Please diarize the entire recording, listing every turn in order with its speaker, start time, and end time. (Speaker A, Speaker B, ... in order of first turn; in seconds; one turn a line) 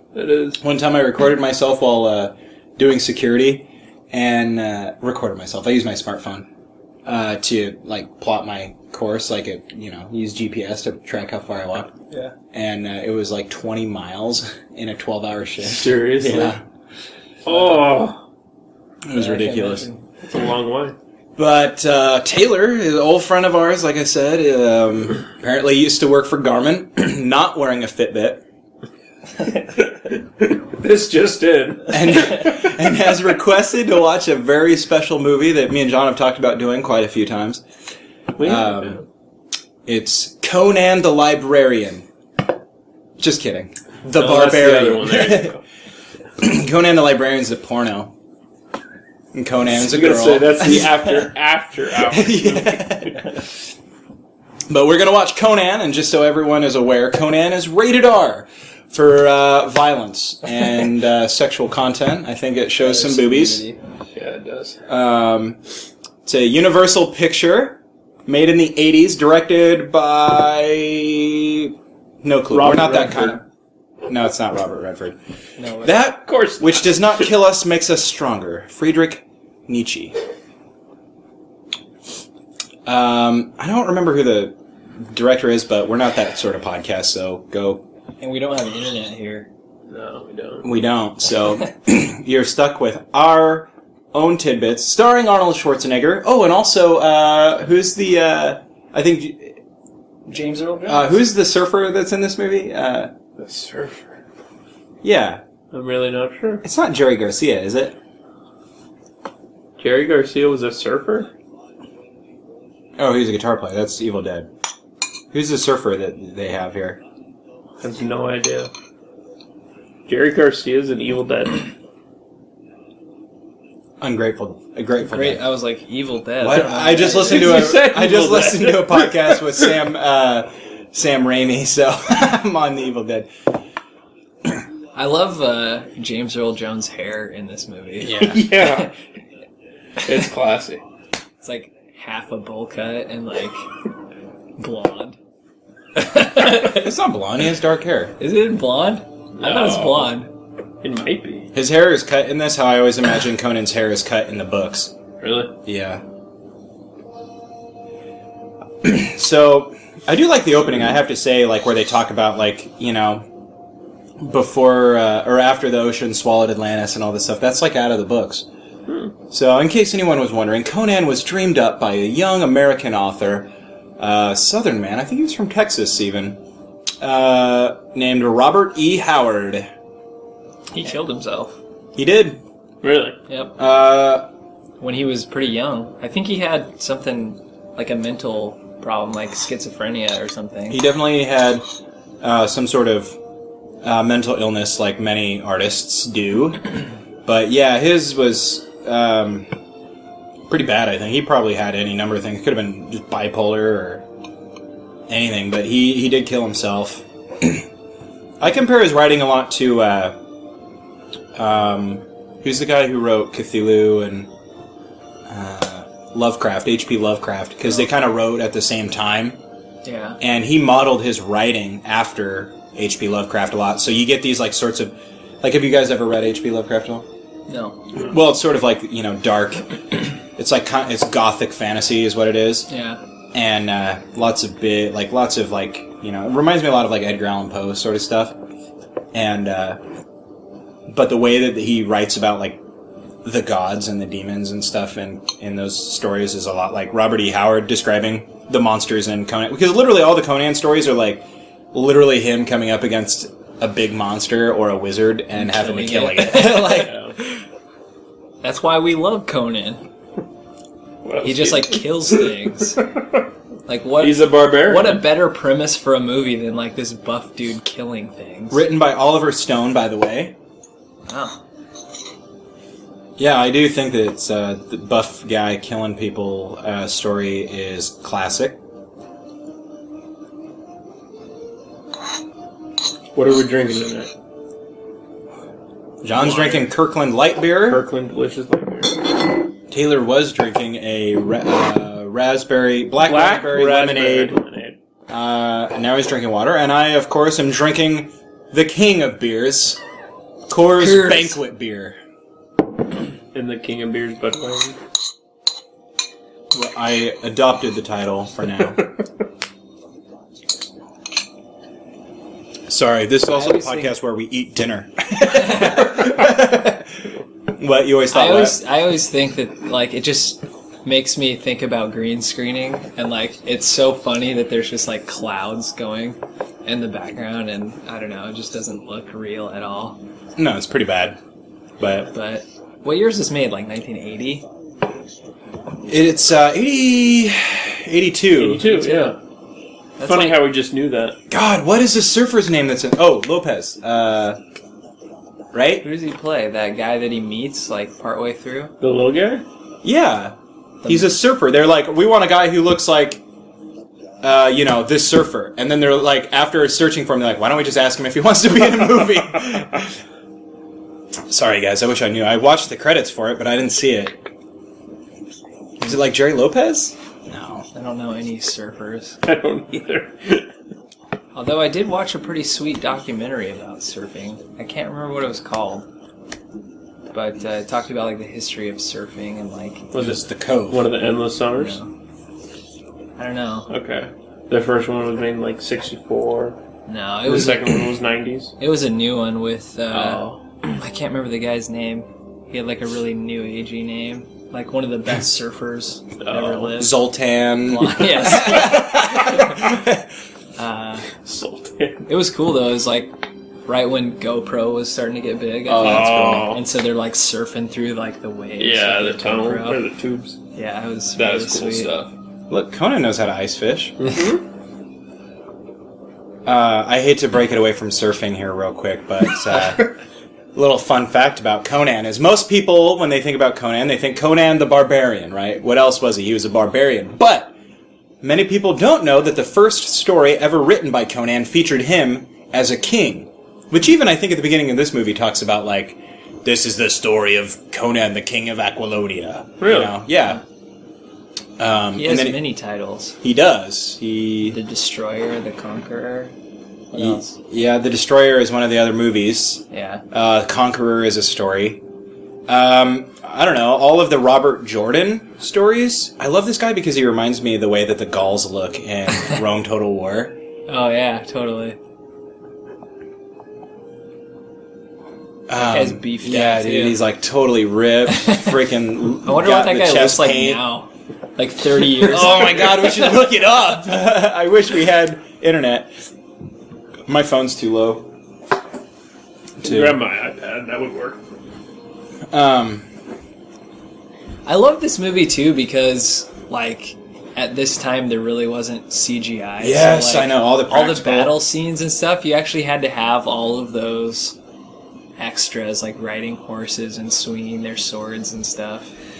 Speaker A: 0.1-0.6
Speaker B: 0.6-6.5
Speaker B: 7.1-11.9
Speaker B: 12.5-16.6
Speaker A: 15.6-16.6
Speaker A: 17.4-18.2
Speaker C: 17.5-18.0
Speaker B: 19.1-19.9
Speaker C: 19.1-20.1
Speaker A: 20.2-21.0
Speaker B: 21.4-28.4
Speaker A: 29.8-32.6
Speaker B: 31.9-37.6
Speaker A: 38.4-39.0
Speaker B: 38.4-39.0
Speaker B: 39.9-42.1
Speaker B: 43.2-45.5
Speaker A: 44.1-45.6
Speaker B: 46.4-48.1
Speaker B: 49.3-51.3
Speaker A: 49.7-53.4
Speaker B: 52.1-53.3
Speaker B: 54.7-63.6
Speaker C: 62.8-63.8
Speaker A: 64.1-64.8
Speaker B: 64.9-65.6
Speaker B: 66.2-73.4
Speaker A: 72.5-73.4
Speaker B: 74.1-75.2
Speaker C: 75.6-76.1
Speaker B: 75.8-80.2
Speaker A: 76.1-77.3
Speaker B: 82.9-87.8
Speaker C: 88.2-89.5
Speaker A: 89.9-90.7
Speaker B: 90.6-99.6
Speaker C: 100.3-101.2
Speaker B: 100.9-103.1
Speaker A: 103.4-104.1
Speaker B: 105.0-105.4
Speaker A: 105.7-106.6
Speaker B: 106.6-108.0
Speaker A: 109.8-111.3
Speaker B: 113.0-114.5
Speaker B: 115.3-117.0
Speaker A: 117.8-118.7
Speaker A: 120.1-121.7
Speaker B: 124.0-125.4
Speaker C: 125.0-127.7
Speaker B: 126.4-133.3
Speaker A: 127.0-129.8
Speaker C: 134.9-138.9
Speaker B: 138.0-138.5
Speaker A: 138.2-138.9
Speaker A: 140.0-140.8
Speaker C: 141.4-143.7
Speaker C: 144.6-145.2
Speaker C: 145.9-146.9
Speaker B: 146.5-148.2
Speaker C: 148.2-150.3
Speaker A: 149.4-150.2
Speaker A: 150.8-151.5
Speaker B: 151.5-154.9
Speaker A: 155.2-155.6
Speaker B: 155.6-156.0
Speaker B: 158.8-163.3
Speaker B: 164.2-168.5
Speaker A: 168.9-169.1
Speaker B: 169.3-176.4
Speaker B: 177.0-179.7
Speaker C: 180.7-181.6
Speaker B: 181.9-182.4
Speaker A: 182.8-183.2
Speaker C: 183.3-183.5
Speaker B: 183.6-184.3
Speaker C: 184.8-190.8
Speaker B: 190.7-191.7
Speaker B: 192.2-193.2
Speaker B: 193.8-199.5
Speaker B: 200.5-204.0
Speaker B: 205.1-207.7
Speaker B: 208.4-210.2
Speaker B: 211.3-214.3
Speaker B: 215.3-219.4
Speaker C: 219.8-220.2
Speaker B: 220.2-227.1
Speaker C: 227.5-227.9
Speaker B: 227.9-232.7
Speaker C: 232.7-233.0
Speaker B: 233.3-238.4
Speaker B: 239.1-239.8
Speaker B: 240.9-242.6
Speaker B: 243.2-257.0
Speaker C: 255.4-257.4
Speaker A: 256.7-257.1
Speaker C: 258.4-259.8
Speaker A: 261.0-262.3
Speaker C: 261.2-262.8
Speaker A: 262.9-263.1
Speaker C: 263.7-268.6
Speaker A: 264.0-265.1
Speaker B: 268.5-270.4
Speaker C: 271.1-271.4
Speaker B: 273.2-278.6
Speaker A: 283.1-284.1
Speaker B: 286.0-287.8
Speaker A: 287.6-289.3
Speaker B: 289.7-294.4
Speaker A: 293.0-294.8
Speaker B: 295.1-299.8
Speaker B: 300.5-302.0
Speaker C: 300.8-301.4
Speaker A: 303.3-304.8
Speaker B: 306.5-308.8
Speaker B: 312.7-318.6
Speaker C: 313.3-313.9
Speaker C: 315.2-316.0
Speaker C: 318.1-330.0
Speaker B: 330.4-331.2
Speaker B: 331.8-332.1
Speaker C: 332.1-334.5
Speaker B: 335.9-338.7
Speaker A: 338.4-339.2
Speaker C: 338.6-339.2
Speaker C: 340.0-340.4
Speaker A: 340.0-341.2
Speaker B: 341.3-344.4
Speaker B: 345.5-345.9
Speaker C: 345.8-348.7
Speaker A: 348.8-349.5
Speaker B: 349.8-353.2
Speaker C: 350.8-351.1
Speaker B: 354.2-359.9
Speaker B: 361.3-364.2
Speaker B: 365.8-367.7
Speaker C: 367.7-369.2
Speaker A: 369.2-370.5
Speaker C: 371.3-375.9
Speaker C: 377.1-379.9
Speaker A: 379.9-381.8
Speaker B: 379.9-380.9
Speaker C: 381.6-381.9
Speaker C: 383.2-383.7
Speaker A: 383.7-386.6
Speaker C: 386.9-387.7
Speaker A: 387.3-388.5
Speaker C: 388.6-397.0
Speaker A: 389.9-390.4
Speaker A: 396.2-396.8
Speaker B: 396.8-400.1
Speaker C: 397.8-399.7
Speaker C: 400.6-401.1
Speaker A: 401.2-402.1
Speaker C: 402.1-409.8
Speaker B: 405.7-406.6
Speaker A: 405.8-406.6
Speaker A: 408.6-410.4
Speaker C: 410.5-411.9
Speaker A: 411.2-412.1
Speaker B: 412.5-414.1
Speaker A: 414.0-414.4
Speaker B: 416.5-419.9
Speaker B: 420.6-427.5
Speaker B: 428.2-440.4
Speaker A: 439.6-439.9
Speaker B: 441.6-442.4
Speaker C: 441.9-443.2
Speaker B: 443.2-444.6
Speaker C: 444.5-446.3
Speaker C: 446.9-447.4
Speaker B: 446.9-451.8
Speaker C: 449.7-450.0
Speaker B: 452.5-460.4
Speaker C: 460.7-461.8
Speaker B: 465.5-470.6
Speaker C: 465.6-467.0
Speaker C: 468.1-468.6
Speaker C: 469.2-473.1
Speaker B: 472.0-475.9
Speaker B: 477.1-478.1
Speaker B: 479.6-480.0
Speaker A: 479.6-481.2
Speaker B: 482.3-482.9
Speaker C: 484.5-494.4
Speaker B: 489.6-491.4
Speaker C: 495.2-498.9